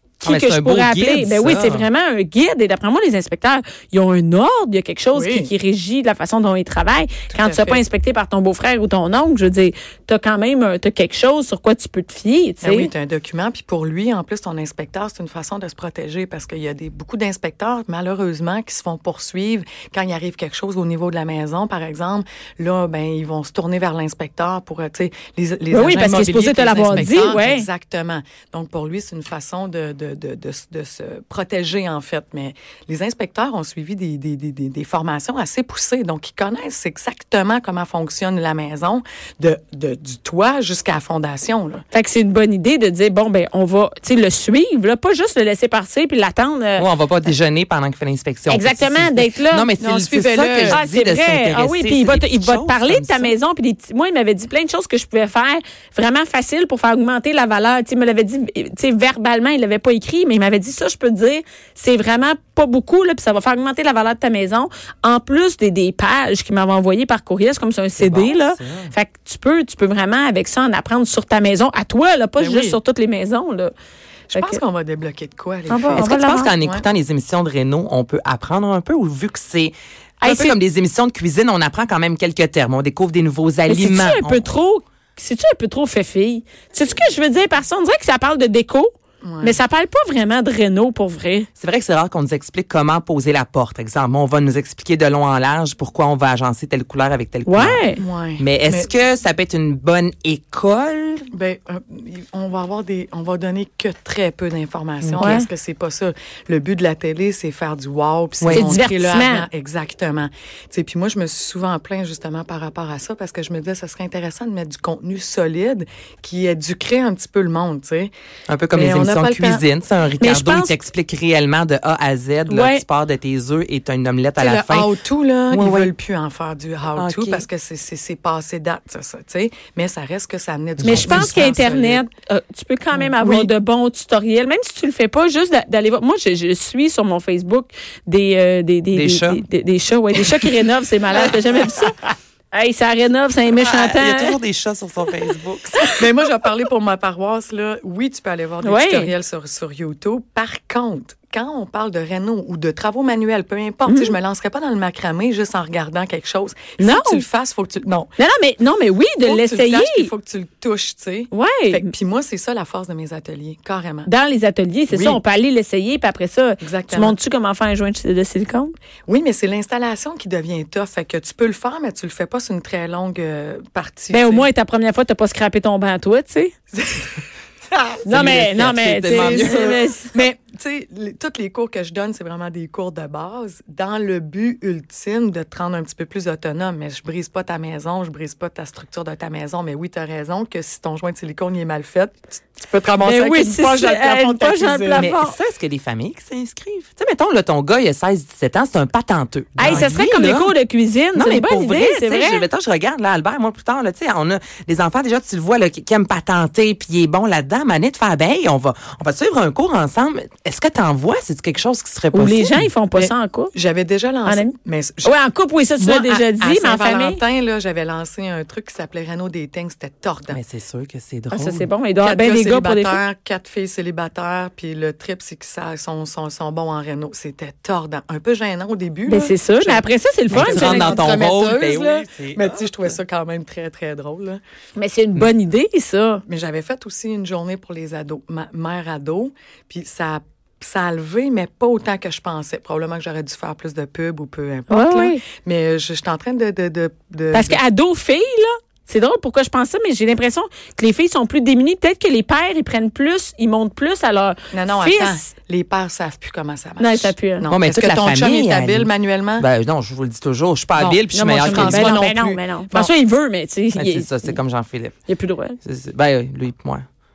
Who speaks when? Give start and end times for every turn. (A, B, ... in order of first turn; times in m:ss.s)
0:00.2-0:12.9 A
0:00.2-0:01.9 B
0:05.1-0:05.5 C
0:07.3-0:07.8 C
0:12.6-0:41.8 C
0:25.7-0:27.7 A
0:41.9-0:46.9 A
0:46.8-0:53.3 B
0:48.5-0:49.7 A
0:49.8-0:50.8 C
0:50.7-1:13.7 A
1:08.0-1:08.9 B
1:12.4-1:12.8 C
1:14.3-1:16.8 C
1:14.4-1:14.6 A
1:15.7-1:16.5 A
1:16.0-1:24.5 B
1:20.2-1:20.6 A
1:23.7-1:31.5 A
1:29.2-1:29.6 C
1:31.6-1:37.8 B
1:37.5-1:38.0 A
1:38.0-1:38.9 C
1:38.4-1:41.3 B
1:41.3-1:58.1 C
1:45.0-1:45.3 B
1:45.2-1:45.5 A
1:48.4-1:48.6 B
1:48.5-1:49.5 A
1:58.5-2:04.9 B
1:58.7-1:59.6 C
2:00.2-2:00.8 A
2:02.5-2:02.8 A
2:04.4-2:12.0 C
2:05.5-2:05.9 B
2:07.0-2:07.4 B
2:10.8-2:11.5 B
2:10.8-2:22.0 A
2:13.2-2:13.5 C
2:18.9-2:19.4 B
2:21.1-2:21.9 C
2:22.5-2:24.4 A
2:23.5-2:25.9 B
2:25.9-2:38.1 C
2:28.6-2:29.1 A
2:33.9-2:34.2 A
2:36.8-2:37.2 A
2:38.2-2:40.1 A
2:39.2-2:44.1 C
2:41.3-2:41.9 A
2:44.1-2:48.7 A
2:44.9-2:45.2 C
2:46.6-2:47.2 C
2:49.1-2:54.5 C
2:54.1-2:56.6 A
2:56.7-2:57.2 C
2:57.7-2:58.0 C
2:58.0-3:00.1 A
2:58.1-2:59.8 B
2:59.1-3:15.1 C
3:13.0-3:15.4 A
3:15.0-3:20.6 B
3:19.6-3:22.4 A
3:19.6-3:19.9 C
3:21.1-3:32.6 B
3:32.1-3:33.5 A
3:33.0-3:35.1 C
3:34.3-3:37.2 A
3:35.8-3:40.4 C
3:40.3-3:41.7 B
3:41.3-3:43.0 A
3:42.0-3:54.4 C
3:49.1-3:51.0 A
3:50.3-3:52.6 B
3:54.8-3:56.2 A
3:56.3-4:07.6 C
4:04.7-4:05.2 A
4:07.3-4:15.3 A
4:14.5-4:19.5 C
4:16.8-4:17.5 A
4:17.5-4:22.0 B
4:20.8-4:22.9 C
4:21.1-4:24.4 A
4:23.8-4:25.0 B
4:25.1-4:25.6 A
4:25.6-4:26.8 B